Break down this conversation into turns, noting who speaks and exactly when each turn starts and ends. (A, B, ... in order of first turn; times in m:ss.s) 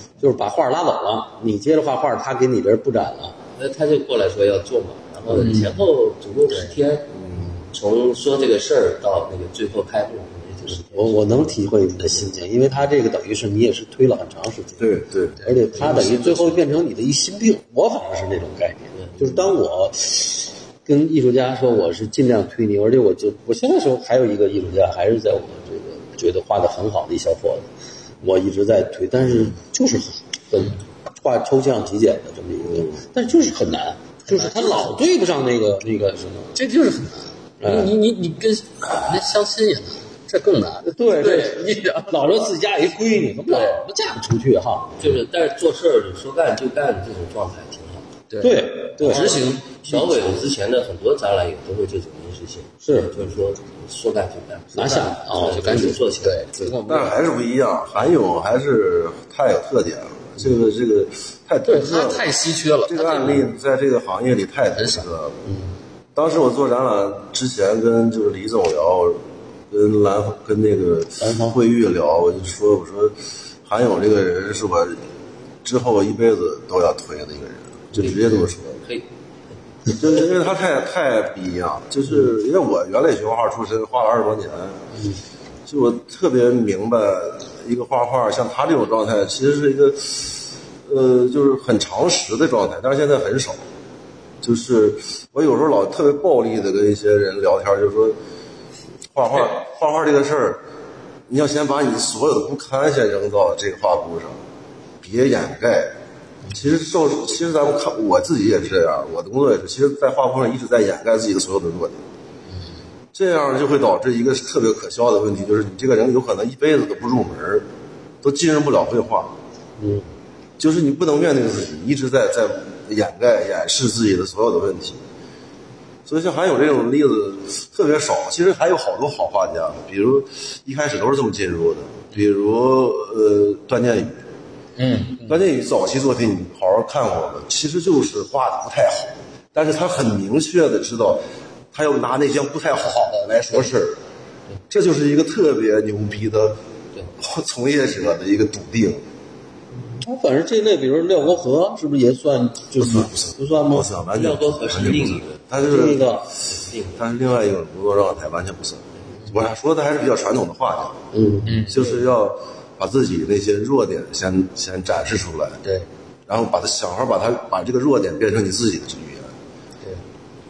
0:00.2-0:03.4 A
0:03.6-0:07.1 B
0:05.3-0:05.9 C
0:06.5-0:06.8 C
0:07.1-0:07.6 D
0:07.7-0:11.4 B
0:10.9-0:27.7 A
0:14.8-0:15.4 D
0:15.7-0:16.6 B
0:28.2-0:36.6 A
0:34.3-0:35.0 C
0:36.5-0:42.4 C
0:37.6-0:37.9 A
0:40.8-0:45.0 A
0:43.5-0:43.8 C
0:45.0-0:48.1 B
0:48.3-0:50.0 C
0:48.4-0:50.1 A
0:49.0-0:56.5 B
0:52.8-0:53.2 A
0:54.7-0:55.9 A
0:55.3-0:57.2 C
0:56.8-1:02.3 D
1:01.6-1:03.5 C
1:02.8-1:05.4 D
1:04.8-1:05.0 C
1:05.4-1:05.7 A
1:06.2-1:09.2 D
1:09.7-1:15.0 D
1:11.2-1:11.6 A
1:15.6-1:18.8 D
1:18.0-1:19.1 B
1:19.9-1:24.8 D
1:25.7-1:33.6 D
1:34.4-1:38.2 D
1:39.1-1:40.6 D
1:41.3-1:44.4 D
1:45.0-1:45.9 D
1:46.5-1:52.0 D
1:53.1-1:57.7 D
1:58.2-1:59.3 D
1:59.8-2:00.0 A
2:00.6-2:05.0 D
2:06.0-2:14.2 D
2:14.8-2:15.4 C
2:15.2-2:24.0 D
2:22.7-2:23.7 C
2:24.7-2:26.6 D
2:27.2-2:29.0 D
2:30.0-2:33.9 A
2:32.8-2:36.2 D
2:34.1-2:37.0 B
2:35.6-2:36.3 A
2:37.0-2:41.0 D
2:41.1-2:41.6 A
2:41.4-2:41.9 C
2:41.7-2:45.6 D
2:46.3-2:49.3 D